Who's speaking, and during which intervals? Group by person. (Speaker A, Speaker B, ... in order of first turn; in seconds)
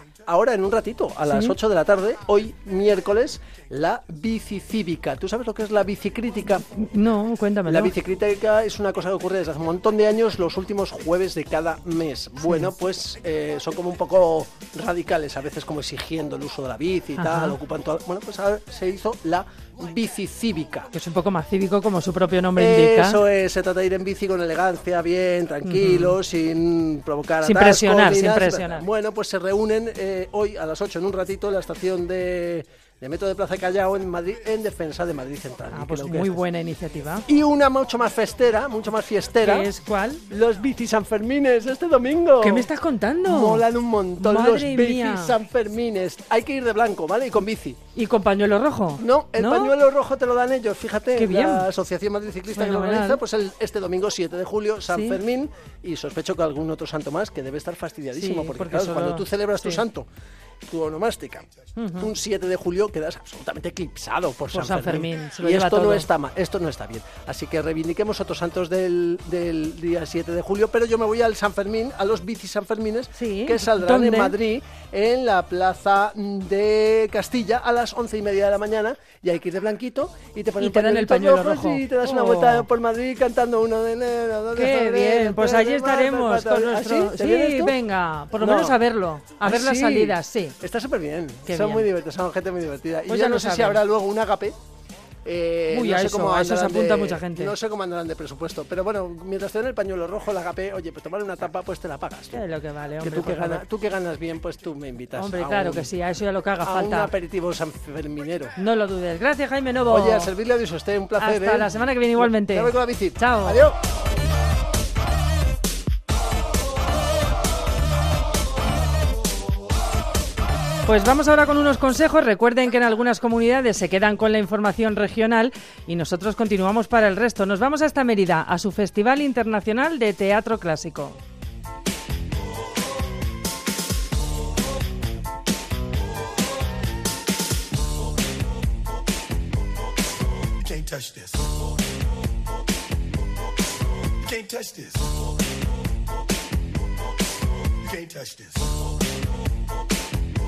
Speaker A: 0.3-6.7, 7.7-20.9, 22.6-36.3, 37.3-39.7, 40.3-42.7, 43.2-47.8, 49.0-60.1, 60.7-61.5, 62.0-87.7, 88.4-88.8, 89.4-94.6, 95.2-102.4, 103.0-105.9, 106.6-108.6, 109.9-113.8
Speaker B: 1.3-1.6, 6.8-7.9, 12.4-12.7, 17.2-17.6, 20.9-23.2, 25.6-26.2, 27.4-28.9, 35.7-37.2, 39.4-40.2, 42.4-43.7, 44.2-45.4, 48.0-49.8, 51.2-51.7, 52.6-53.2, 54.9-55.2, 58.1-59.8, 61.8-62.1, 64.5-66.1, 73.2-74.4, 80.6-82.7, 84.5-90.6, 91.5-91.9, 93.1-93.8, 95.7-97.5, 102.3-103.6, 105.1-107.1, 108.6-110.3, 111.2-113.6, 120.9-131.2
Speaker C: 140.7-141.5, 144.3-145.1, 147.9-148.6